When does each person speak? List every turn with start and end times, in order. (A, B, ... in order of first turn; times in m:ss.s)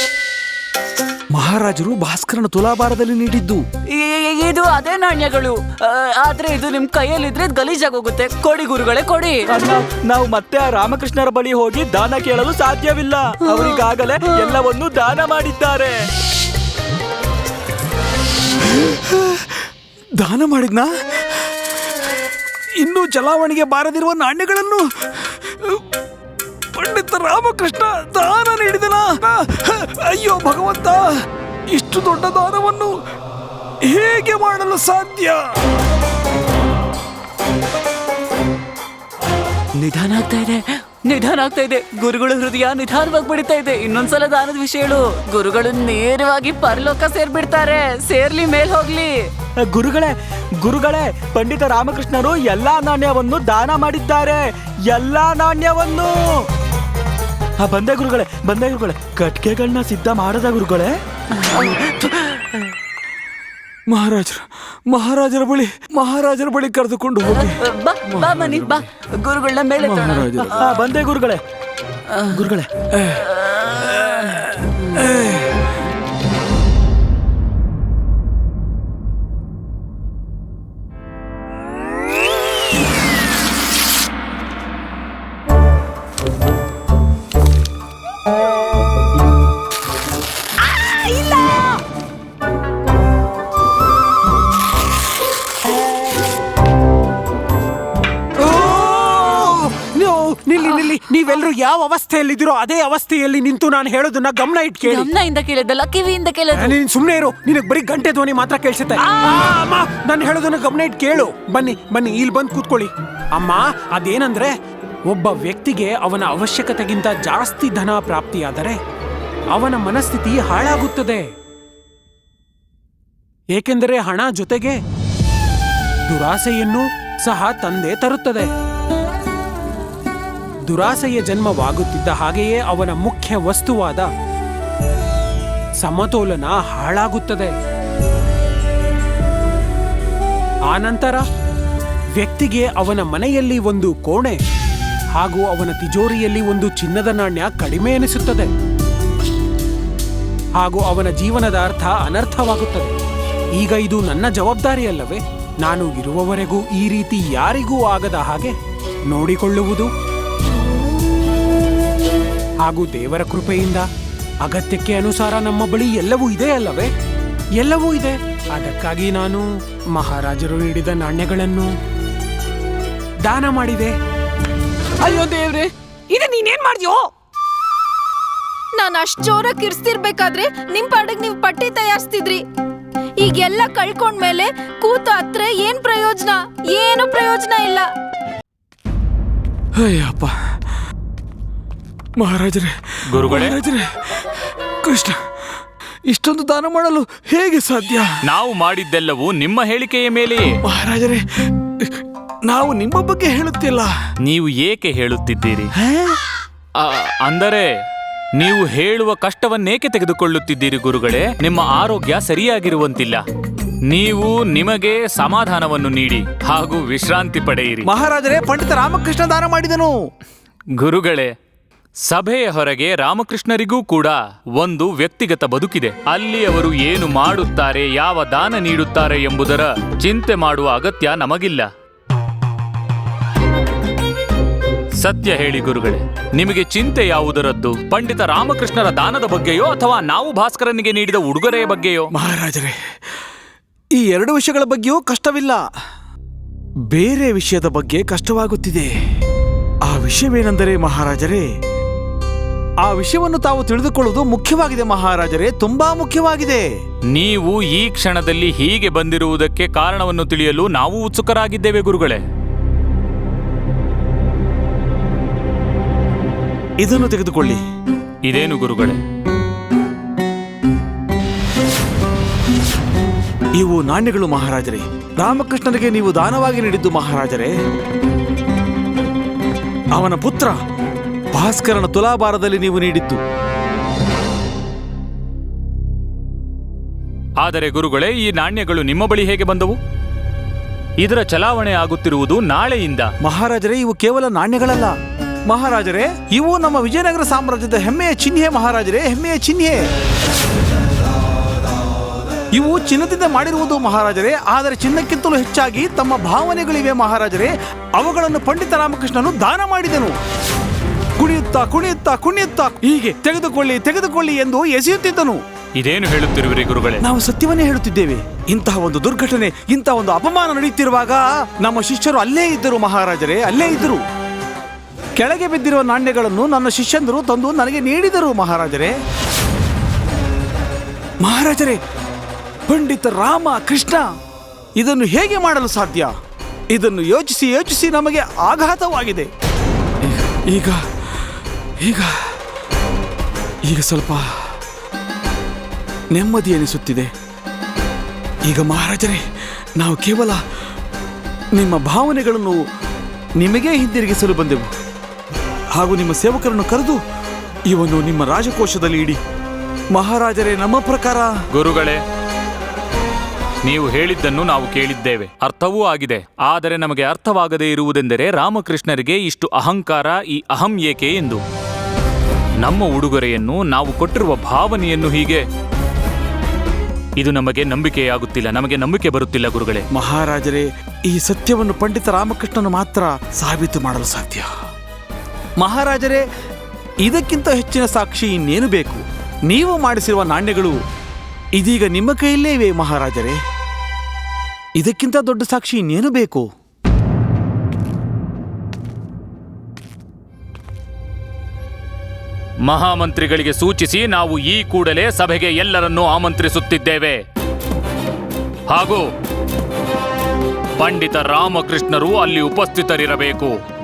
0:01.3-0:03.6 A
0:03.9-0:09.5 B
0:09.5-0:16.0 C
0:13.5-0:13.8 B
0:18.9-0:19.7 A
0:20.2-0:21.4 A
0:22.8-0:25.8 A
0:26.7-0:31.2 A
0:31.7-0:33.0 A
0:33.8-0:35.5 A
0:39.8-0:49.3 B
0:49.6-0:56.4 C
0:57.6-1:00.9 C
1:01.5-1:01.8 B
1:03.9-1:08.8 A
1:07.3-1:11.0 B
1:09.8-1:10.7 A
1:10.6-1:11.4 C
1:12.2-1:12.6 B
1:12.4-1:12.6 C
1:12.9-1:13.2 A
1:13.2-1:14.5 B
1:14.9-1:15.6 A
1:38.4-1:45.1 D
1:44.8-1:46.8 B
1:46.6-1:54.5 D
1:49.1-1:49.4 B
1:55.1-1:58.8 D
1:59.5-2:01.2 D
2:03.5-2:04.8 D
2:06.1-2:08.5 D
2:10.7-2:14.1 D
2:15.8-2:17.5 D
2:20.7-2:21.2 D
2:22.2-2:24.4 D
2:25.2-2:28.5 D
2:30.6-2:32.9 D
2:33.6-2:38.5 D
2:39.1-2:39.9 D
2:42.6-2:43.8 D
2:44.4-2:46.9 D
2:47.6-2:51.7 D
2:53.2-2:53.9 D
2:55.0-2:57.1 E
2:58.8-3:02.4 F
3:03.2-3:07.8 F
3:09.8-3:10.3 A
3:12.2-3:14.3 A
3:13.1-3:13.6 G
3:14.8-3:15.2 A
3:16.1-3:18.1 A
3:18.2-3:20.6 G
3:20.6-3:21.2 A
3:21.8-3:23.9 A
3:24.2-3:25.7 G
3:25.8-3:26.2 A
3:26.8-3:27.7 G
3:28.4-3:33.2 G
3:33.9-3:37.9 G
3:37.8-3:39.9 A
3:40.8-3:41.3 G
3:42.1-3:51.7 G
3:55.0-4:02.1 G
4:02.1-4:02.8 A
4:04.0-4:05.6 A
4:06.9-4:08.9 A
4:09.9-4:11.4 A
4:12.8-4:16.6 A
4:17.1-4:22.2 G
4:26.8-4:27.6 A
4:28.3-4:29.0 G
4:33.6-4:37.5 A
4:40.0-4:40.6 A
4:41.3-4:43.2 A
4:47.4-4:49.8 G
4:51.0-4:53.1 G
4:53.2-4:54.9 A
4:55.5-4:59.8 A
5:02.5-5:10.2 A
5:11.2-5:15.4 A
5:15.8-5:17.0 G
5:17.0-5:24.0 A
5:25.2-5:28.9 A
5:31.2-5:31.8 A
5:32.7-5:34.1 A
5:34.8-5:36.1 A
5:36.7-5:39.3 A
5:40.0-5:40.8 A
5:41.8-5:42.4 A
5:43.6-5:44.3 A
5:46.1-5:47.1 A
5:48.4-5:49.2 A
5:49.8-5:50.4 A
5:51.5-5:52.6 A
5:53.4-5:54.7 A
5:55.7-5:57.0 A
5:57.7-5:59.2 A
5:59.9-6:01.3 A
6:01.5-6:02.0 G
6:03.6-6:11.4 G
6:12.6-6:15.4 G
6:17.2-6:19.8 G
6:19.9-6:24.5 A
6:25.6-6:26.2 A
6:27.0-6:30.8 A
6:31.6-6:33.4 A
6:34.8-6:36.4 A
6:42.6-6:47.2 G
6:48.7-6:49.0 G
6:50.8-6:53.5 G